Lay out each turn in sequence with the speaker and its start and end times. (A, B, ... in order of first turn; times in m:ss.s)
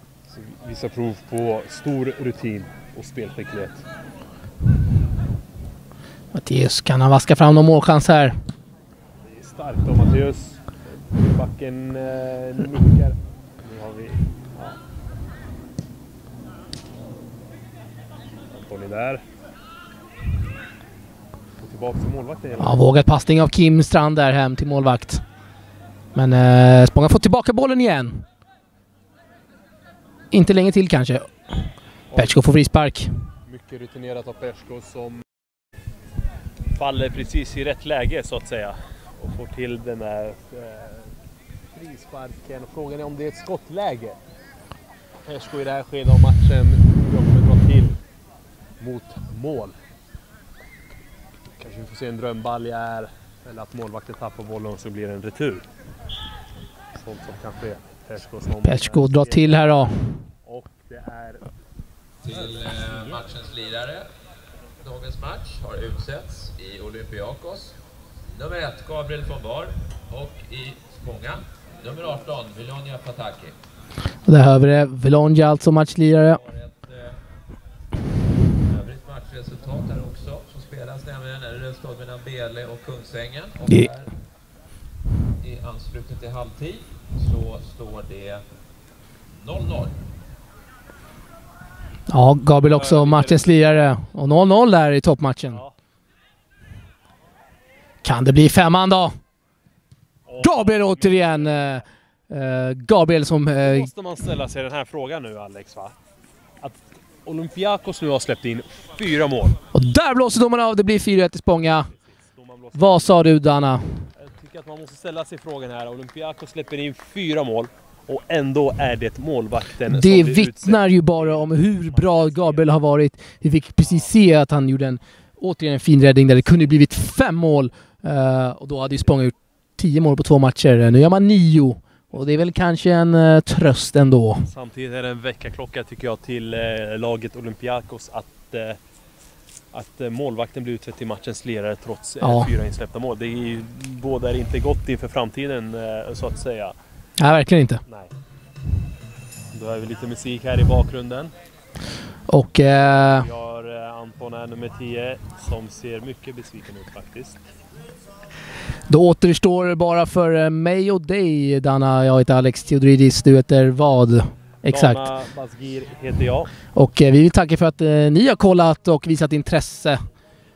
0:00.3-0:03.8 A
0:06.3-0:08.4 B
0:09.2-0:14.8 A
0:18.5-0:19.2 A
0:21.6-0:22.8 A
0:22.6-0:25.2 B
0:26.1-0:28.2 B
0:30.3-0:31.6 B
0:32.1-0:32.4 A
0:32.1-0:33.1 B
0:33.4-0:35.2 A
0:36.7-0:41.1 A
0:41.7-0:44.2 A
0:45.2-0:48.0 A
0:48.8-0:49.7 A
0:51.6-0:55.6 A
0:56.9-1:01.5 A
0:58.6-1:00.0 B
1:02.2-1:04.1 C
1:02.3-1:03.2 A
1:04.8-1:07.8 C
1:08.3-1:13.6 C
1:14.2-1:16.4 B
1:16.3-1:17.2 C
1:18.6-1:24.1 C
1:25.4-1:28.4 C
1:29.3-1:30.0 C
1:32.1-1:35.6 B
1:32.6-1:33.7 A
1:38.0-1:39.2 B
1:40.2-1:41.8 A
1:40.4-1:43.9 B
1:43.6-1:46.0 A
1:46.6-1:49.6 A
1:49.7-1:51.9 B
1:51.9-1:53.3 A
1:52.7-1:54.1 B
1:54.2-2:02.7 A
1:59.9-2:14.4 B
2:03.8-2:04.1 A
2:14.4-2:18.8 A
2:19.7-2:26.7 A
2:22.2-2:22.5 B
2:27.2-2:27.8 B
2:27.8-2:28.1 A
2:29.5-2:31.3 A
2:32.3-2:33.3 B
2:32.9-2:37.4 A
2:38.9-2:45.0 B
2:44.7-2:46.5 A
2:46.7-2:50.0 B